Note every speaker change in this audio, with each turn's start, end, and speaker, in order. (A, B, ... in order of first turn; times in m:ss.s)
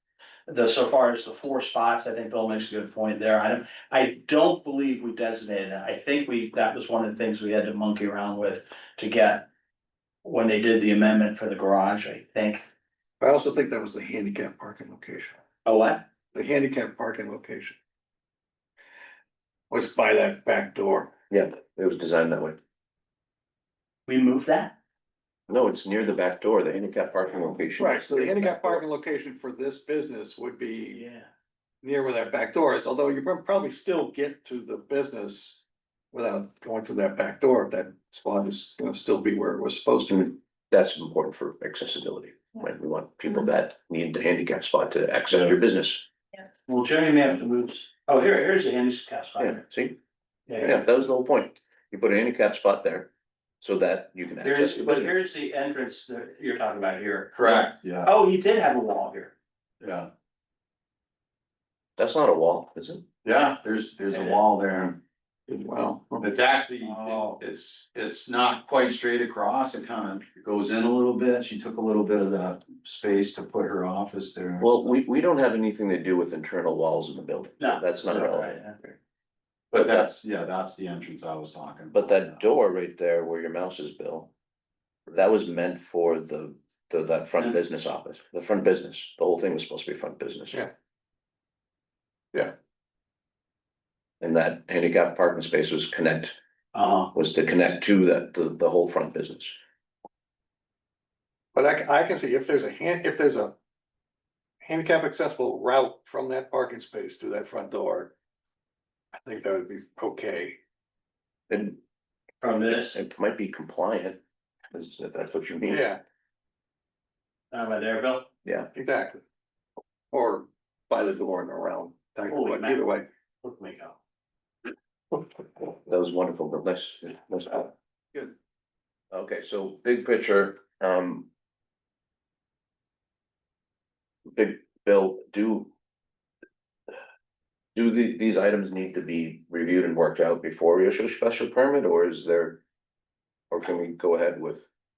0:00.5-0:09.5 A
0:10.2-0:12.6 A
0:13.2-0:15.4 B
0:15.6-0:16.0 A
0:16.3-0:17.8 B
0:19.7-0:21.1 B
0:21.3-0:22.6 C
0:24.1-0:24.8 A
0:25.5-0:28.8 C
0:27.8-0:31.0 B
0:30.9-0:31.3 A
0:31.8-0:40.4 B
0:40.1-0:46.1 C
0:46.7-0:49.6 A
0:49.4-0:50.0 C
0:50.5-0:50.8 A
0:50.6-0:55.1 C
0:54.4-0:59.4 A
0:57.4-0:58.1 D
0:59.8-1:00.1 D
1:02.0-1:03.0 C
1:03.2-1:05.0 D
1:04.1-1:04.4 A
1:05.5-1:06.3 B
1:06.2-1:15.0 D
1:06.8-1:07.4 A
1:14.6-1:18.9 C
1:17.6-1:18.8 A
1:19.7-1:22.4 D
1:19.8-1:20.0 C
1:21.9-1:24.3 C
1:25.1-1:30.6 C
1:34.2-1:36.4 C
1:36.7-1:37.1 A
1:37.1-1:39.6 C
1:41.5-1:43.6 B
1:44.6-1:48.1 B
1:49.1-1:50.6 B
1:51.5-1:51.8 C
1:52.4-1:53.0 A
1:52.7-1:55.9 C
1:55.7-1:56.0 B
1:57.5-1:58.3 A
1:58.4-1:58.7 C
1:58.7-1:59.2 B
2:00.1-2:03.1 B
2:02.3-2:04.0 A
2:05.9-2:07.7 C
2:09.1-2:11.3 C
2:14.3-2:15.7 C
2:17.8-2:22.6 C
2:23.5-2:24.7 C